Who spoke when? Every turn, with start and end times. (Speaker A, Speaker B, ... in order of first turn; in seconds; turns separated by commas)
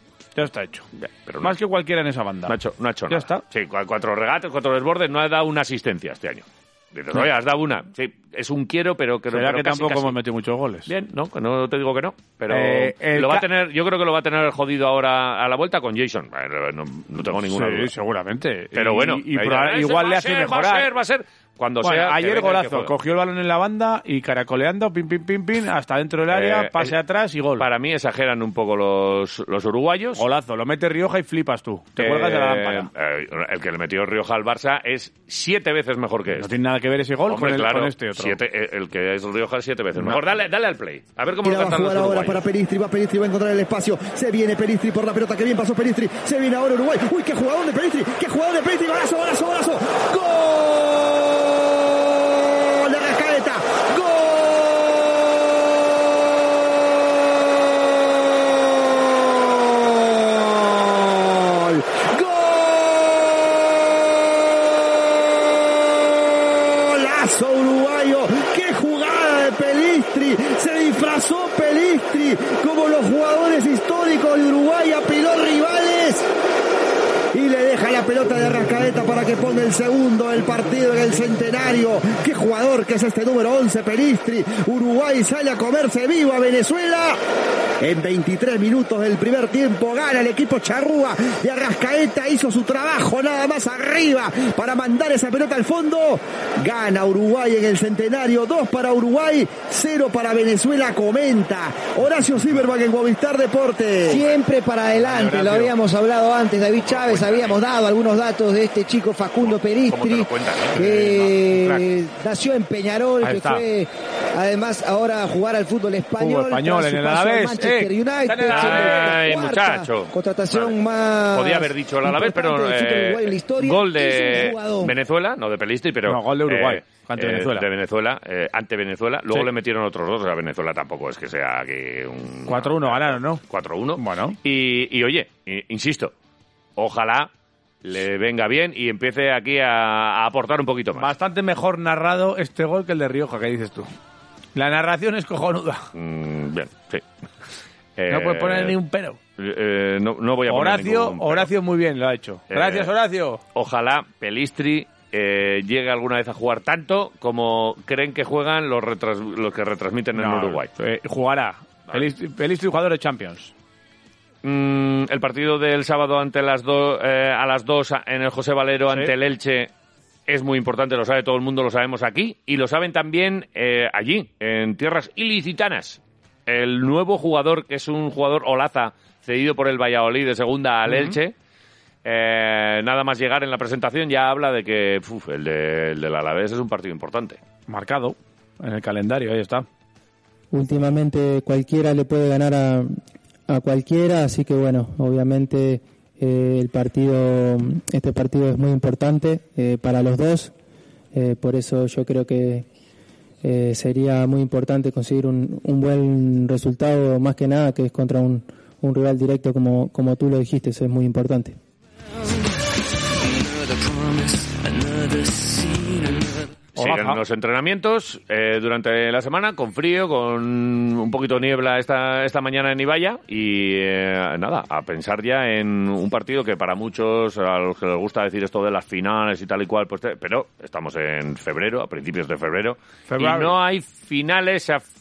Speaker A: 0.3-0.9, Speaker B: 1.0-1.6, Speaker A: 1.4-2.5, Speaker B: 2.5-10.2, Speaker A: 3.1-3.4, Speaker A: 9.3-10.9, Speaker B: 10.9-17.9, Speaker A: 12.5-13.5, Speaker A: 17.5-20.9, Speaker B: 18.7-22.9, Speaker A: 21.8-27.6, Speaker B: 26.3-26.9, Speaker B: 27.6-30.2, Speaker A: 30.2-32.9, Speaker B: 32.0-36.5, Speaker A: 36.4-38.4, Speaker B: 37.3-42.4, Speaker C: 41.4-55.5, Speaker C: 57.5-76.3, Speaker C: 77.3-87.2, Speaker C: 87.8-104.3, Speaker D: 104.1-124.9, Speaker A: 105.0-105.7, Speaker B: 106.8-107.6, Speaker B: 109.5-111.3, Speaker A: 110.8-111.8, Speaker A: 113.2-113.6, Speaker A: 116.2-119.2, Speaker B: 118.5-120.8, Speaker B: 121.3-136.1, Speaker A: 126.1-127.7, Speaker A: 132.5-133.4, Speaker A: 134.0-134.4, Speaker B: 136.8-137.3, Speaker B: 137.8-141.1, Speaker A: 141.0-143.9, Speaker A: 144.6-145.9, Speaker B: 145.9-147.1, Speaker B: 148.0-148.8, Speaker A: 148.1-149.2, Speaker B: 149.4-151.5, Speaker A: 150.5-153.4, Speaker B: 152.5-152.9, Speaker B: 153.5-160.7, Speaker A: 160.2-163.5, Speaker B: 164.4-169.7, Speaker B: 170.3-181.3, Speaker A: 180.9-181.2, Speaker B: 182.1-187.4, Speaker A: 187.7-189.7, Speaker E: 190.5-193.0, Speaker E: 193.5-200.5, Speaker E: 201.1-202.7, Speaker E: 203.4-211.6, Speaker B: 216.8-234.8, Speaker A: 216.8-217.2, Speaker A: 233.1-233.6